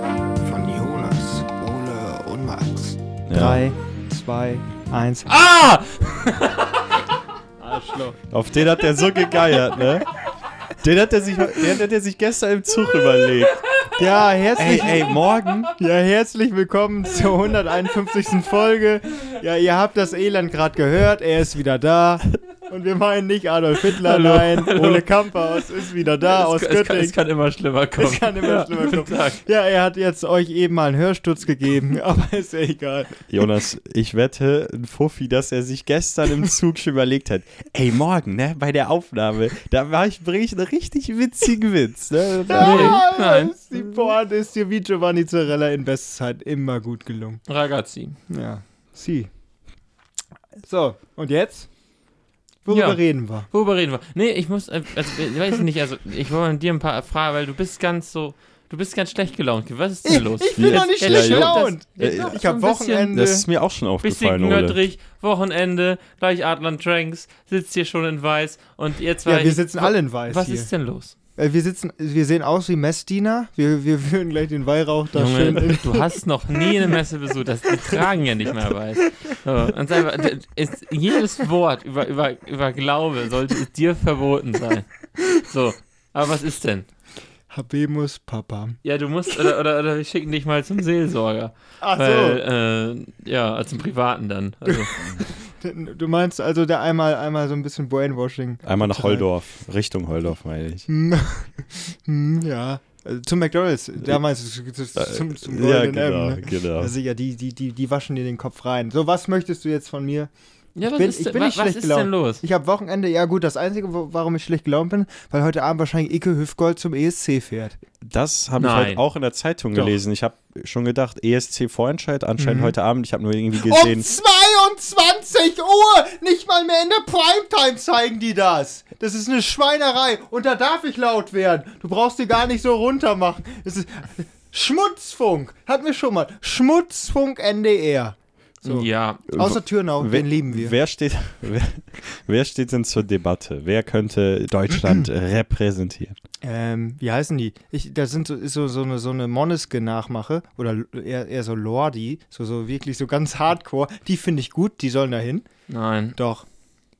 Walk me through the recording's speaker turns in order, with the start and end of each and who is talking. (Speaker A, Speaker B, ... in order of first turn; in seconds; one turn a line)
Speaker A: 0.4-5.3
Speaker B: 3.3-3.6
Speaker C: 5.3-7.0
Speaker A: 7.6-8.2
Speaker B: 8.3-10.1
Speaker B: 10.8-13.9
Speaker A: 14.0-15.2
Speaker B: 14.6-15.7
Speaker A: 15.8-27.2
Speaker C: 24.0-25.6
Speaker C: 26.2-29.4
Speaker A: 28.0-33.2
Speaker B: 33.3-43.0
Speaker A: 42.5-47.5
Speaker C: 42.5-43.5
Speaker C: 47.5-48.2
Speaker A: 48.3-49.3
Speaker A: 50.6-51.8
Speaker A: 52.6-53.5
Speaker C: 52.7-63.1
Speaker A: 60.0-63.5
Speaker B: 60.6-62.4
Speaker B: 63.1-64.8
Speaker C: 64.0-71.2
Speaker A: 69.2-76.2
Speaker C: 75.1-86.9
Speaker A: 87.5-88.8
Speaker C: 88.8-94.9
Speaker A: 91.8-92.4
Speaker A: 94.7-99.4
Speaker B: 98.6-100.9
Speaker A: 100.9-117.8
Speaker B: 105.0-106.9
Speaker C: 110.8-112.4
Speaker B: 118.0-124.1
Speaker C: 118.6-119.0
Speaker A: 119.7-120.0
Speaker A: 122.4-122.8
Speaker A: 123.6-140.8
Speaker C: 138.6-139.2
Speaker B: 139.3-146.2
Speaker A: 146.4-155.5
Speaker C: 155.7-156.2
Speaker A: 156.2-156.5